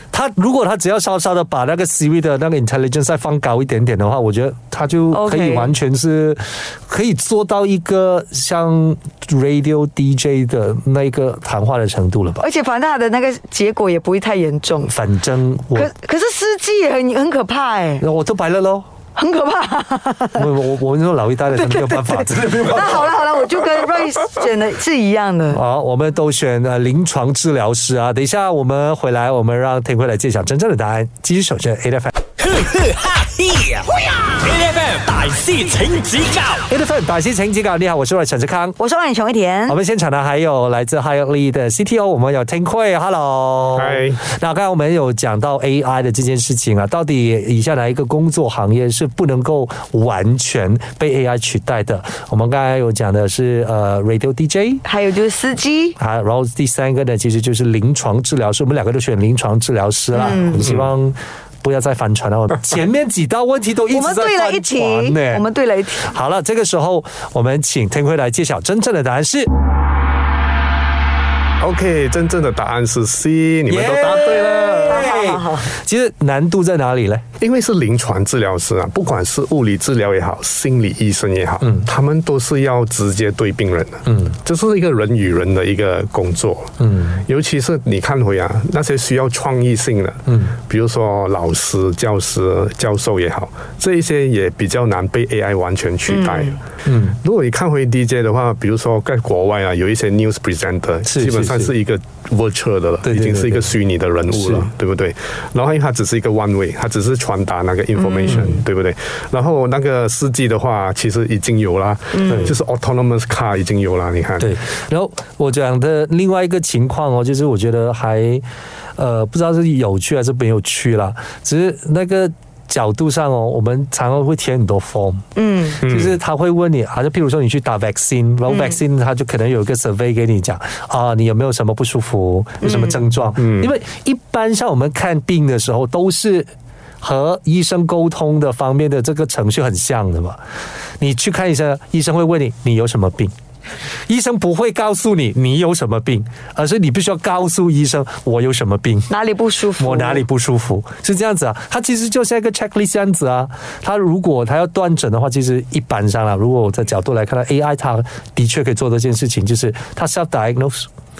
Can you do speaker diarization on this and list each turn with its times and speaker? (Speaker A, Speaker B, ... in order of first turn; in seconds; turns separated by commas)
Speaker A: 0.1-12.4, Speaker B: 5.1-5.7, Speaker B: 12.4-14.9, Speaker A: 14.8-15.9, Speaker B: 15.8-18.1, Speaker A: 18.0-18.9, Speaker B: 19.1-20.5, Speaker A: 20.3-23.1, Speaker B: 21.6-25.6, Speaker A: 25.5-32.1, Speaker C: 32.4-36.6, Speaker A: 36.7-38.8, Speaker B: 38.8-39.8, Speaker A: 39.7-54.8, Speaker D: 43.8-44.2, Speaker B: 54.8-56.0, Speaker A: 56.0-65.4, Speaker B: 60.1-60.6, Speaker B: 63.9-66.1, Speaker A: 66.0-69.5, Speaker D: 71.6-75.1, Speaker A: 73.7-77.2, Speaker B: 74.7-75.7, Speaker D: 77.4-86.7, Speaker A: 81.6-81.9, Speaker A: 84.1-84.3, Speaker A: 86.8-87.2, Speaker D: 87.2-96.6, Speaker A: 90.3-90.5, Speaker B: 96.1-96.6, Speaker A: 96.8-97.2, Speaker D: 97.2-114.5, Speaker A: 101.1-101.7, Speaker A: 103.0-103.7, Speaker A: 104.3-104.7, Speaker B: 108.0-108.6, Speaker A: 108.3-108.6, Speaker B: 112.1-112.5, Speaker A: 112.2-112.5, Speaker A: 114.4-118.4, Speaker A: 119.0-125.2, Speaker B: 125.3-125.8, Speaker D: 125.8-126.2, Speaker A: 125.8-136.5, Speaker B: 128.5-128.8, Speaker B: 132.6-133.0, Speaker D: 133.4-133.7, Speaker A: 137.0-140.4, Speaker A: 141.0-143.3, Speaker A: 144.1-149.1, Speaker B: 149.1-150.2, Speaker A: 149.8-160.9